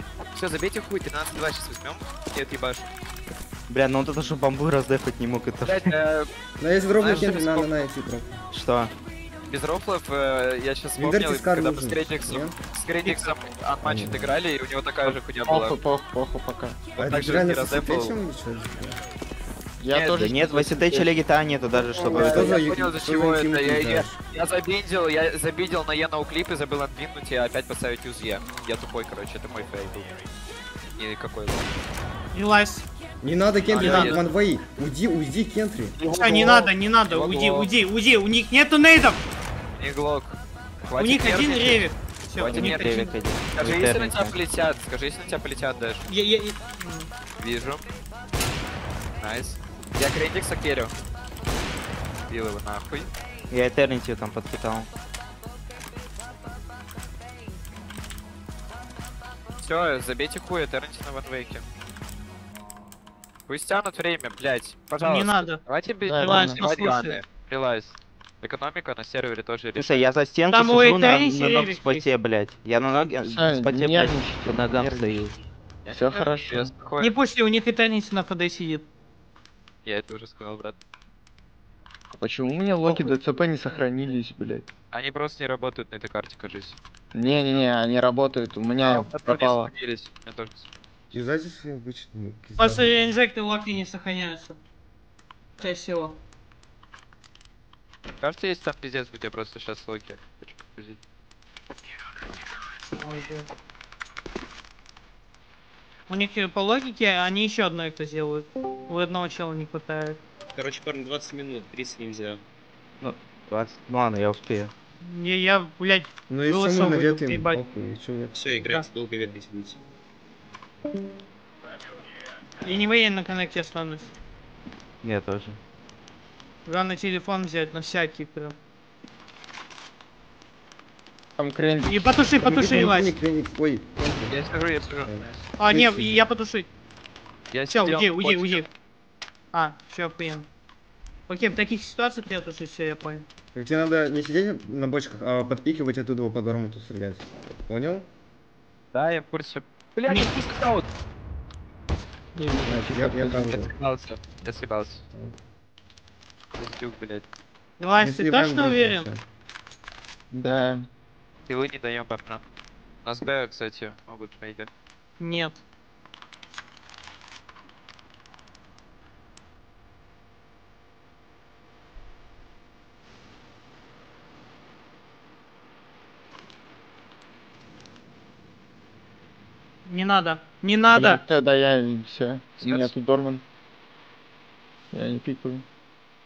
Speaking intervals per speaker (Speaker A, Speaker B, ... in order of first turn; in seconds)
Speaker A: 0.3-2.9, 5.6-6.3, 7.0-7.8, 9.5-15.8, 16.9-18.1, 19.9-20.3, 21.8-30.1, 31.0-31.7, 33.7-34.2, 36.0-37.7, 39.8-40.4, 40.9-41.9, 42.4-46.0, 47.4-47.8, 49.2-50.9, 52.3-53.1, 59.6-61.6, 63.5-70.1, 75.9-77.1, 79.8-80.8, 84.9-86.8, 88.8-90.7, 98.2-101.0, 134.3-135.1, 137.5-138.6, 148.9-150.9, 153.4-155.0, 156.6-157.2, 161.5-162.4, 163.0-164.7, 182.6-182.9
Speaker B: 3.7-5.9, 8.5-8.9, 20.1-22.6, 42.4-44.4, 53.5-54.9, 69.7-75.3, 113.0-114.7, 125.0-125.6
Speaker C: 6.6-8.4, 11.0-12.5, 13.8-14.3, 17.0-19.0, 22.1-24.2, 33.2-36.0, 91.1-93.0, 116.3-118.4, 132.4-134.3, 135.0-136.2, 143.5-148.1, 152.6-153.7, 158.0-159.2
Speaker D: 15.1-16.9, 19.8-21.1, 21.8-22.6, 66.1-66.6, 73.2-75.2, 75.9-76.7, 82.1-84.6, 87.1-89.7, 131.4-132.1, 152.3-153.5, 160.3-160.9, 180.9-183.4, 184.9-185.6
Speaker E: 32.3-32.8, 33.8-34.1, 36.1-39.2, 41.0-43.2, 46.1-47.1, 65.0-65.6, 66.2-67.2, 70.5-72.0, 77.0-78.8, 92.6-94.6, 95.6-96.2, 103.0-103.5, 106.1-110.2, 115.0-117.6, 118.6-118.9, 122.6-124.1, 126.7-128.6, 131.8-133.1, 135.6-136.7, 137.7-138.7, 139.5-140.5, 141.3-143.2, 150.1-150.3, 157.8-159.1, 165.2-165.6, 179.8-181.2
Speaker F: 110.5-112.4, 118.3-119.8